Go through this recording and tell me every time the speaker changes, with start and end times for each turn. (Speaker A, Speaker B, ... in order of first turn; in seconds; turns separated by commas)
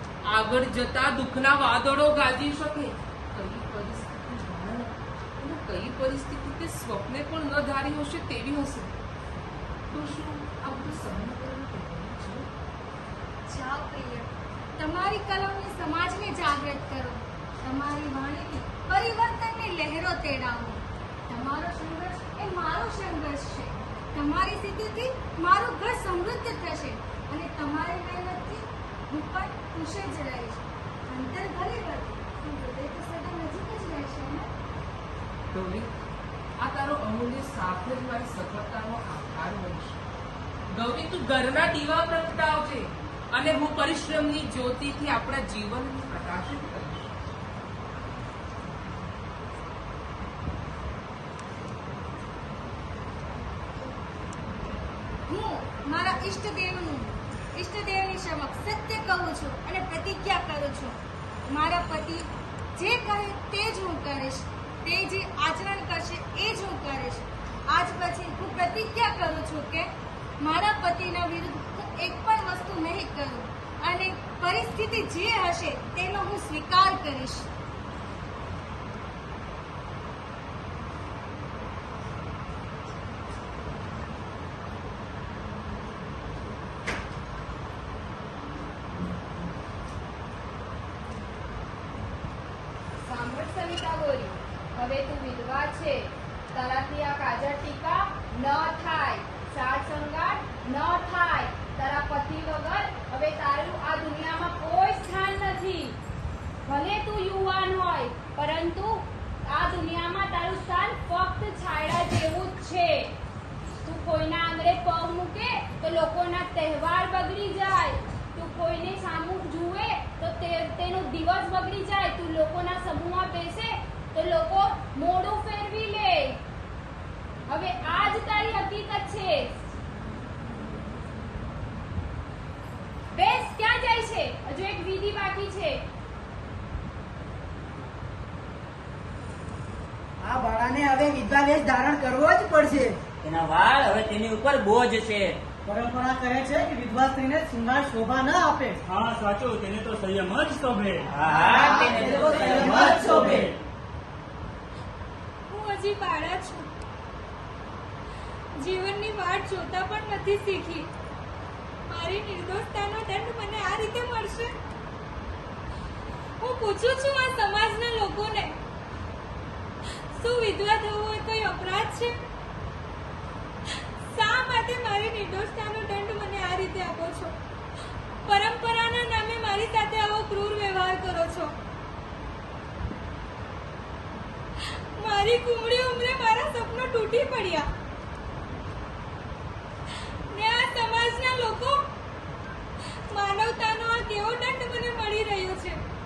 Speaker A: 0.3-8.9, Speaker A: 9.9-12.5, Speaker B: 13.5-34.5, Speaker A: 35.5-35.9, Speaker A: 36.6-40.0, Speaker A: 40.7-47.1, Speaker B: 55.3-77.5, Speaker C: 93.0-106.0, Speaker C: 106.7-113.2, Speaker C: 113.8-126.4, Speaker C: 127.5-129.6, Speaker C: 133.1-135.8, Speaker D: 140.2-143.0, Speaker E: 143.2-145.4, Speaker D: 145.7-148.8, Speaker F: 148.9-151.2, Speaker D: 151.1-153.5, Speaker E: 151.2-153.5, Speaker B: 155.5-156.7, Speaker B: 158.6-160.9, Speaker B: 161.9-164.5, Speaker B: 166.4-168.5, Speaker B: 170.2-172.1, Speaker B: 174.2-177.3, Speaker B: 178.3-181.5, Speaker B: 185.0-187.6, Speaker B: 190.3-191.7, Speaker B: 193.1-195.8